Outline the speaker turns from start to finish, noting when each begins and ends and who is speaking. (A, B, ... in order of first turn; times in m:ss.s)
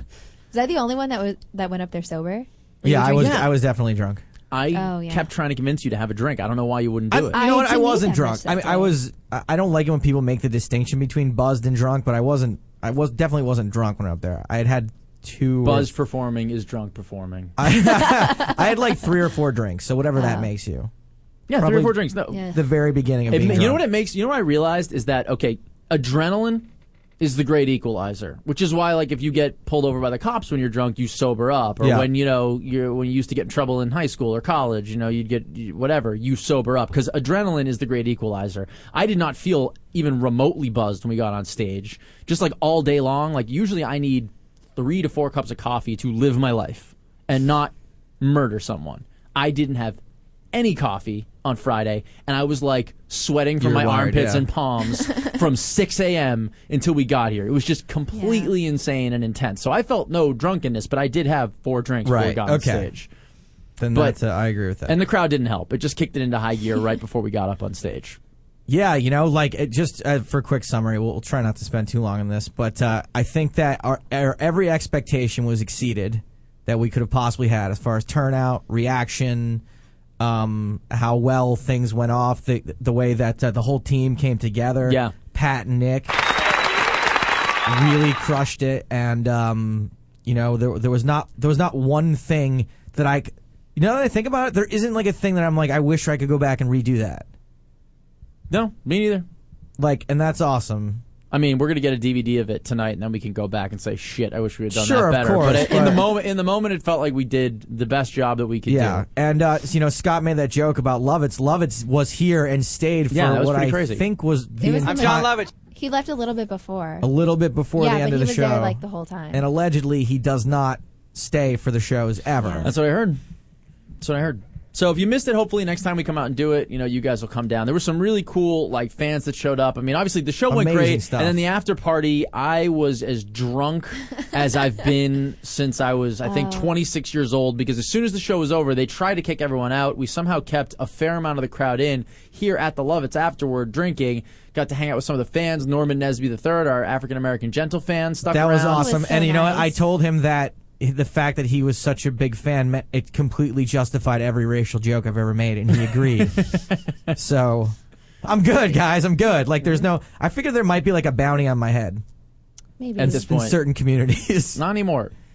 0:00.5-0:03.5 A
0:02.8-0:04.2 B
0:04.5-0:07.4 C
0:04.7-0:05.3 A
0:07.1-0:15.9 B
0:07.3-0:09.0 A
0:15.6-0:17.5 C
0:17.6-0:20.9 B
0:17.8-0:18.7 A
0:20.2-0:20.5 A
0:21.5-0:22.5 C
0:21.6-0:23.8 B
0:22.3-0:22.6 A
0:23.3-0:26.6 C
0:27.2-0:50.0 C
0:31.8-0:32.1 B
0:50.5-1:03.1 C
0:53.6-0:54.5 B
0:58.1-0:58.5 A
1:02.0-1:02.9 B
1:03.8-1:05.0 B
1:04.9-1:08.2 C
1:08.7-1:19.6 B
1:20.2-1:26.2 B
1:24.8-1:25.1 C
1:27.6-1:37.3 B
1:38.5-1:39.2 C
1:39.8-1:41.0 B
1:41.3-1:49.0 C
1:44.7-1:46.0 B
1:48.7-1:55.3 B
1:53.1-1:54.0 C
1:54.6-1:57.1 A
1:54.9-1:55.5 C
1:57.0-1:58.8 B
1:57.8-1:59.4 A
1:59.3-2:02.7 B
2:02.4-2:02.7 A
2:02.6-2:03.2 C
2:04.0-2:28.9 C
2:10.5-2:11.4 B
2:16.2-2:16.7 A
2:28.3-2:36.4 B
2:28.7-2:29.8 A
2:37.1-2:42.0 B
2:42.8-2:43.2 A
2:43.0-2:43.6 C
2:43.0-2:44.6 B
2:44.6-2:45.1 C